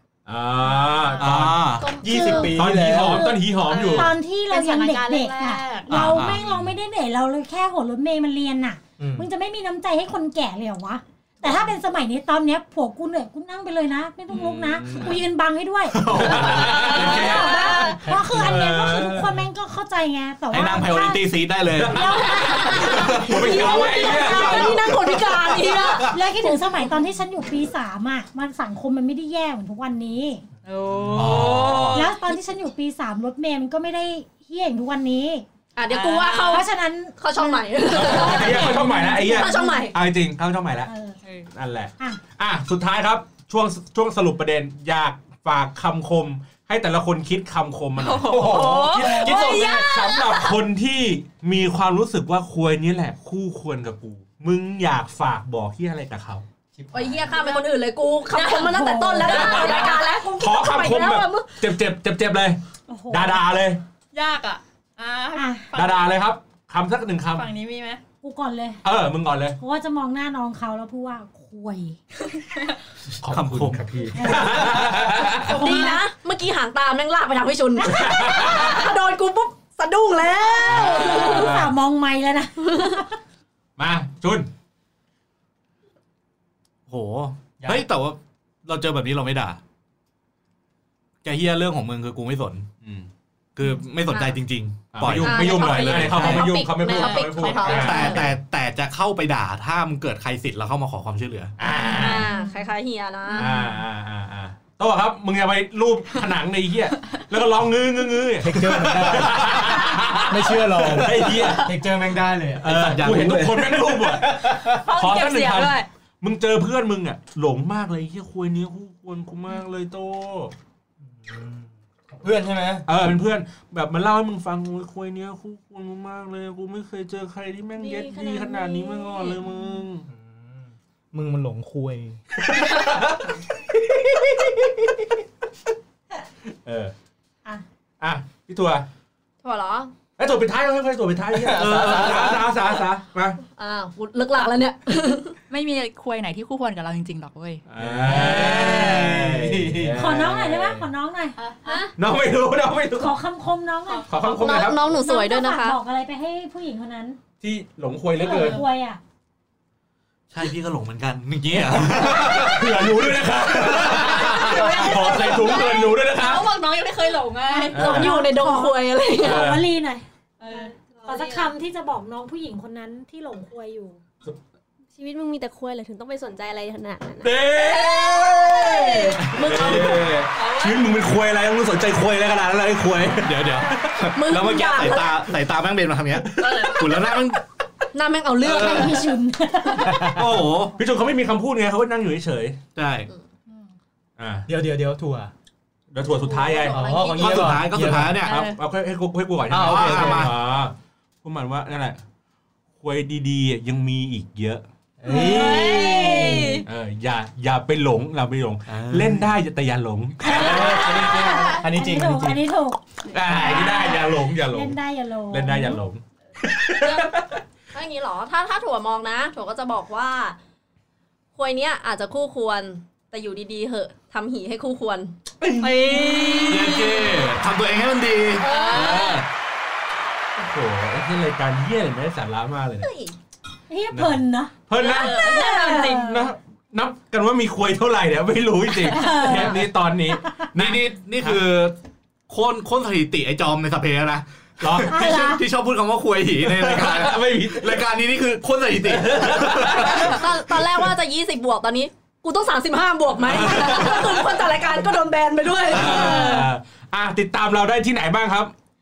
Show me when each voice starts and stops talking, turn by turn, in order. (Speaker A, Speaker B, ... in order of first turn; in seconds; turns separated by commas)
Speaker A: 0.2-4.1, Speaker B: 0.7-1.3, Speaker C: 1.2-1.9, Speaker D: 1.8-2.5, Speaker E: 2.0-3.3, Speaker F: 2.0-24.5, Speaker B: 3.6-5.9, Speaker C: 5.9-6.6, Speaker E: 9.0-9.3, Speaker A: 14.3-15.1, Speaker C: 15.9-16.9, Speaker A: 15.9-19.4, Speaker B: 16.3-18.0, Speaker D: 16.9-17.9, Speaker E: 18.0-18.4, Speaker C: 20.5-22.4, Speaker A: 21.7-25.8, Speaker D: 22.8-26.5, Speaker C: 23.2-26.2, Speaker F: 25.9-30.4, Speaker B: 30.6-32.1, Speaker C: 31.1-32.1, Speaker A: 31.2-31.7, Speaker F: 31.9-35.5, Speaker D: 35.8-36.7, Speaker B: 35.9-36.6, Speaker F: 36.5-39.9, Speaker D: 37.2-39.9, Speaker A: 37.9-40.9, Speaker F: 40.9-41.2, Speaker A: 41.5-56.4, Speaker B: 48.0-50.4, Speaker E: 48.2-49.9, Speaker D: 49.2-50.5, Speaker E: 56.8-57.3, Speaker D: 56.9-61.6, Speaker B: 57.3-57.6, Speaker F: 58.3-60.3, Speaker B: 59.2-60.2, Speaker A: 59.3-62.6, Speaker F: 62.9-63.5, Speaker A: 63.1-63.8, Speaker B: 64.1-66.2, Speaker F: 65.3-65.7, Speaker A: 65.7-67.5, Speaker B: 67.3-68.0, Speaker F: 68.2-68.8, Speaker A: 68.8-69.6, Speaker F: 69.6-72.0, Speaker A: 73.2-75.8, Speaker C: 73.3-73.8, Speaker F: 74.1-76.0, Speaker D: 75.5-81.6, Speaker A: 77.8-78.9, Speaker F: 77.9-78.4, Speaker F: 80.3-83.1, Speaker A: 80.7-81.7, Speaker A: 83.8-84.5, Speaker C: 86.9-89.6, Speaker C: 91.2-92.7, Speaker A: 92.8-93.1, Speaker C: 93.5-96.5, Speaker D: 94.1-94.4, Speaker A: 94.9-98.3, Speaker D: 95.0-98.3, Speaker C: 97.5-101.5, Speaker A: 101.6-102.3, Speaker F: 101.9-102.5, Speaker D: 101.9-103.5, Speaker A: 103.3-111.8, Speaker F: 103.3-103.6, Speaker E: 108.4-109.6, Speaker C: 109.3-109.7, Speaker E: 110.3-114.8, Speaker A: 112.6-120.5, Speaker C: 112.7-113.7, Speaker B: 114.7-115.9, Speaker E: 121.2-122.9, Speaker A: 122.8-130.0, Speaker E: 130.1-132.2, Speaker A: 132.5-133.3, Speaker A: 134.1-134.6, Speaker A: 136.5-136.9, Speaker A: 138.0-138.9, Speaker D: 139.4-139.9, Speaker A: 140.2-143.4, Speaker E: 141.3-142.6, Speaker D: 143.6-145.3, Speaker B: 145.5-147.6, Speaker A: 147.7-150.4, Speaker E: 147.8-150.7, Speaker C: 148.1-148.9, Speaker F: 149.9-151.3, Speaker B: 151.4-151.9, Speaker D: 151.7-151.9, Speaker A: 152.0-153.1, Speaker F: 153.0-157.2, Speaker A: 154.1-154.8, Speaker D: 154.2-155.8, Speaker A: 157.4-158.6, Speaker F: 158.2-159.0, Speaker B: 158.2-158.6, Speaker C: 160.3-164.9, Speaker A: 161.7-166.5, Speaker B: 163.7-167.8, Speaker F: 167.5-174.0, Speaker A: 167.7-168.1, Speaker D: 167.7-169.4, Speaker A: 169.2-169.7, Speaker B: 170.4-171.5, Speaker G: 174.9-177.3, Speaker A: 177.2-183.4, Speaker D: 177.7-180.1, Speaker B: 180.3-180.9, Speaker C: 183.1-187.4, Speaker D: 184.1-185.2, Speaker A: 186.2-187.1, Speaker B: 186.4-186.8, Speaker D: 187.9-189.1, Speaker F: 188.4-190.2, Speaker C: 190.1-190.7, Speaker A: 190.7-192.6, Speaker C: 192.7-193.1, Speaker A: 194.2-194.5, Speaker E: 194.5-195.3, Speaker A: 195.9-197.1, Speaker D: 196.1-197.6, Speaker E: 196.7-198.2, Speaker C: 197.2-198.4, Speaker B: 198.2-198.6, Speaker A: 198.2-200.7, Speaker E: 199.5-200.3, Speaker C: 199.5-200.4, Speaker A: 201.2-202.0, Speaker A: 202.8-204.6, Speaker E: 205.0-206.5, Speaker F: 205.1-206.6, Speaker B: 205.1-206.6, Speaker A: 206.6-211.2, Speaker E: 208.7-209.4, Speaker F: 210.2-215.8, Speaker E: 210.3-212.4, Speaker A: 213.1-214.8, Speaker E: 213.3-213.6, Speaker A: 215.3-217.4, Speaker D: 217.7-220.4, Speaker D: 221.3-225.1, Speaker A: 225.4-226.4, Speaker B: 225.6-227.1, Speaker D: 225.9-226.7, Speaker C: 226.5-229.2, Speaker D: 228.4-229.2, Speaker B: 228.5-229.1, Speaker A: 228.9-229.2, Speaker A: 230.3-232.9, Speaker D: 232.8-233.1, Speaker F: 233.7-236.3, Speaker A: 234.7-241.4, Speaker D: 234.8-235.9, Speaker B: 234.8-236.0, Speaker F: 238.9-239.7, Speaker D: 239.1-239.6, Speaker C: 240.5-241.7, Speaker C: 242.3-250.1, Speaker A: 244.6-245.0, Speaker F: 244.8-245.4, Speaker A: 246.4-247.8, Speaker A: 248.8-250.9, Speaker D: 249.9-256.5, Speaker A: 253.2-254.4, Speaker A: 255.7-258.5, Speaker B: 256.0-256.5